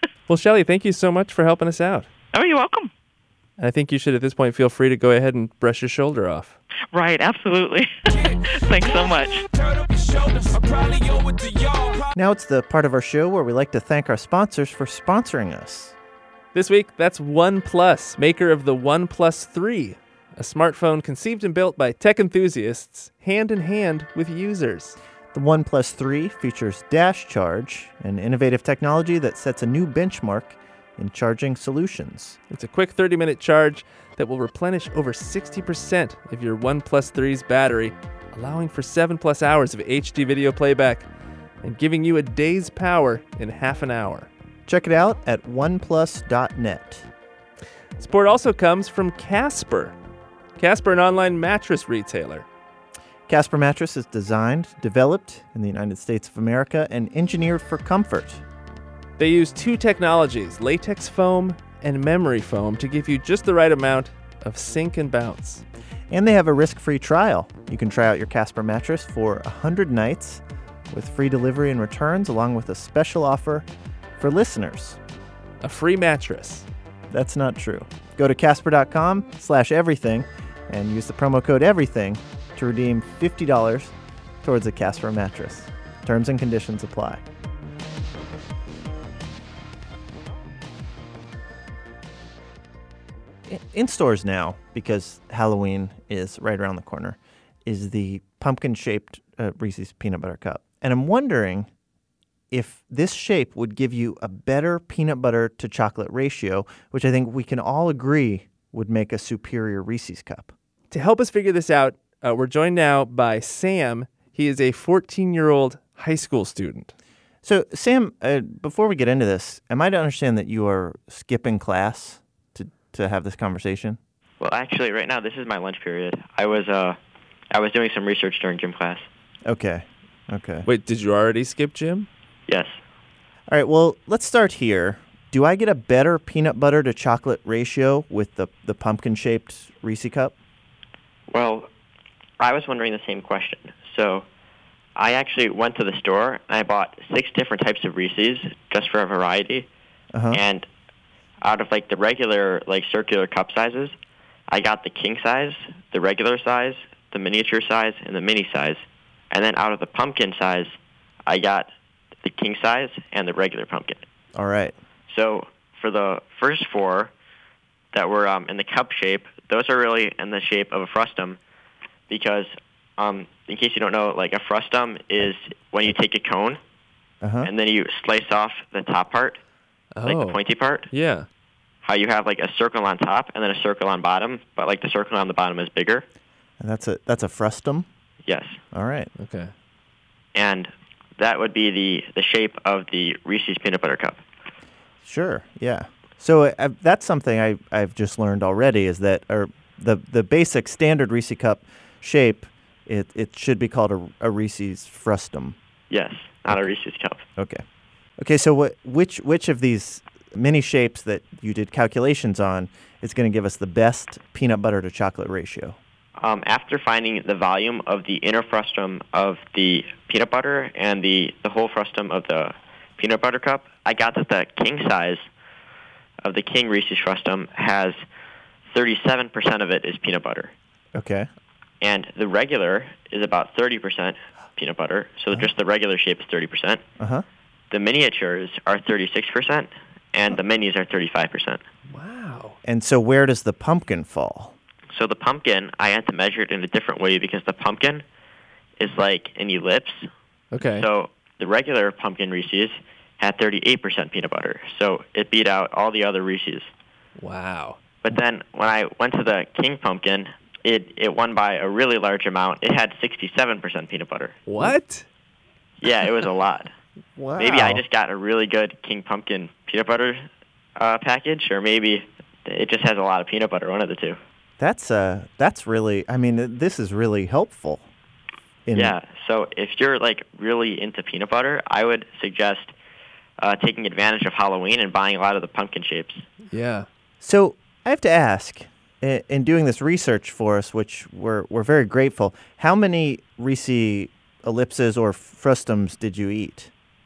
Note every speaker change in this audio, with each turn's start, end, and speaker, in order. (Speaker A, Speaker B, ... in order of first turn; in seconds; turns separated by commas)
Speaker A: 0.3-2.1, Speaker B: 2.3-2.9, Speaker A: 3.6-6.6, Speaker B: 6.9-9.3, Speaker C: 8.1-12.1, Speaker D: 12.1-15.9, Speaker A: 16.5-24.9, Speaker D: 25.3-32.4, Speaker A: 32.5-41.0, Speaker A: 41.6-44.3, Speaker D: 44.7-47.1, Speaker A: 48.0-50.0, Speaker A: 50.6-52.5, Speaker D: 53.3-58.4, Speaker A: 59.2-65.6, Speaker D: 66.1-73.7, Speaker D: 74.2-75.0, Speaker A: 75.6-76.7, Speaker D: 77.1-87.2, Speaker D: 93.5-101.7, Speaker D: 102.5-110.5, Speaker A: 110.9-116.9, Speaker D: 117.4-124.0, Speaker E: 124.4-127.0, Speaker E: 127.5-129.1, Speaker D: 129.4-130.7, Speaker A: 130.7-132.1, Speaker E: 132.5-132.7, Speaker D: 133.5-140.3, Speaker E: 141.3-141.7, Speaker E: 142.4-144.2, Speaker E: 144.9-149.7, Speaker D: 150.1-150.4, Speaker E: 150.3-150.7, Speaker E: 151.4-153.9, Speaker E: 154.5-160.7, Speaker E: 161.2-161.7, Speaker E: 162.2-164.0, Speaker D: 164.3-164.7, Speaker E: 165.1-167.1, Speaker E: 167.9-171.4, Speaker E: 172.1-176.6, Speaker D: 177.2-177.5, Speaker E: 177.4-179.4, Speaker A: 179.9-180.4, Speaker E: 180.0-180.9, Speaker A: 180.9-181.3, Speaker E: 181.8-186.1, Speaker D: 186.6-187.8, Speaker E: 188.2-188.6, Speaker D: 188.7-189.1, Speaker A: 189.2-189.5, Speaker E: 190.3-194.2, Speaker D: 195.0-205.6, Speaker E: 205.9-207.2, Speaker D: 207.4-207.6, Speaker D: 208.2-215.8, Speaker E: 216.2-225.2, Speaker E: 226.2-228.0, Speaker E: 228.7-230.5, Speaker D: 230.9-231.3, Speaker E: 231.8-236.8, Speaker D: 237.0-237.2, Speaker E: 237.7-241.6, Speaker A: 241.9-242.6, Speaker D: 242.7-244.5, Speaker E: 244.9-248.0, Speaker E: 248.8-250.1, Speaker A: 250.5-250.9, Speaker E: 250.7-256.7, Speaker A: 257.2-257.8, Speaker E: 258.0-264.4, Speaker A: 264.4-265.1, Speaker E: 265.8-266.7, Speaker D: 267.2-267.8, Speaker E: 267.4-270.2, Speaker E: 270.8-274.2, Speaker D: 274.6-277.9, Speaker D: 278.7-278.9, Speaker E: 278.7-282.7, Speaker E: 283.4-286.2, Speaker A: 286.5-286.9, Speaker D: 287.2-296.7